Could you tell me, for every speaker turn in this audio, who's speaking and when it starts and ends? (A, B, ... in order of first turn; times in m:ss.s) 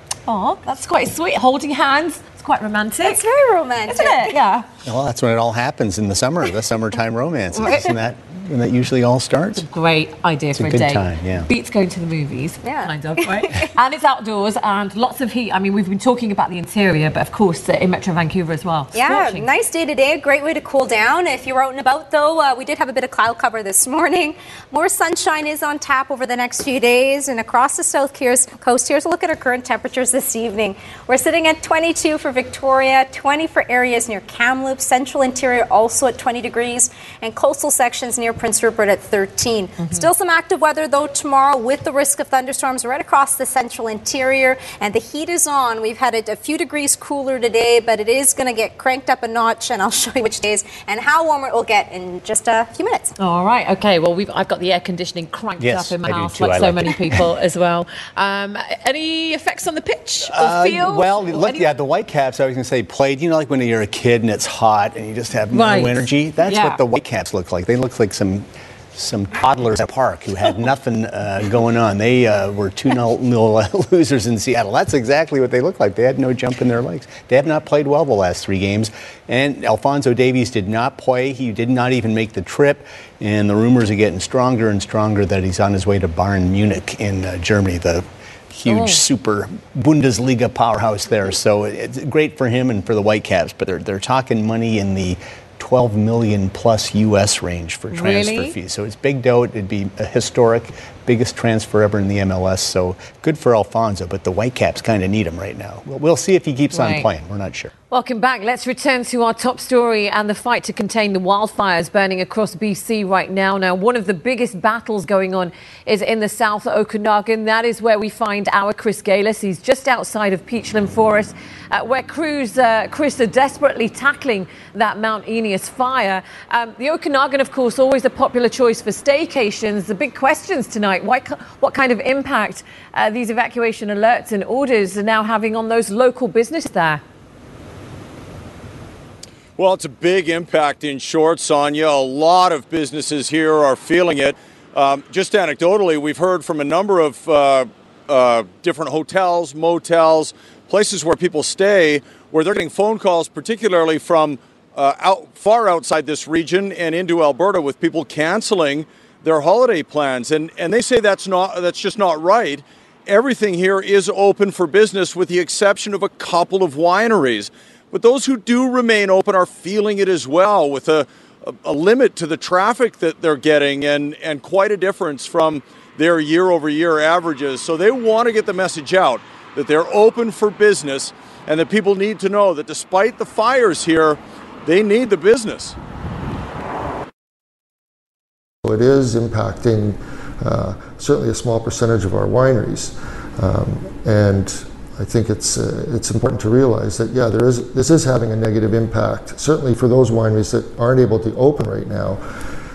0:00.3-0:03.2 A
0:03.0-0:04.4 B
0:03.9-0:04.7 A
0:04.8-0:09.6 C
0:09.6-0:19.5 A
0:10.6-0:11.5 C
0:12.6-0:13.7 B
0:18.9-0:53.1 B
0:39.8-0:40.0 A
0:53.2-1:01.7 A
0:55.6-0:57.2 C
1:00.2-1:47.7 C
1:05.5-1:06.8 A
1:28.7-1:29.0 A
1:37.9-1:38.5 A
1:46.7-1:47.1 A
1:47.9-2:17.0 A
2:19.6-3:05.7 D
3:08.6-3:22.2 E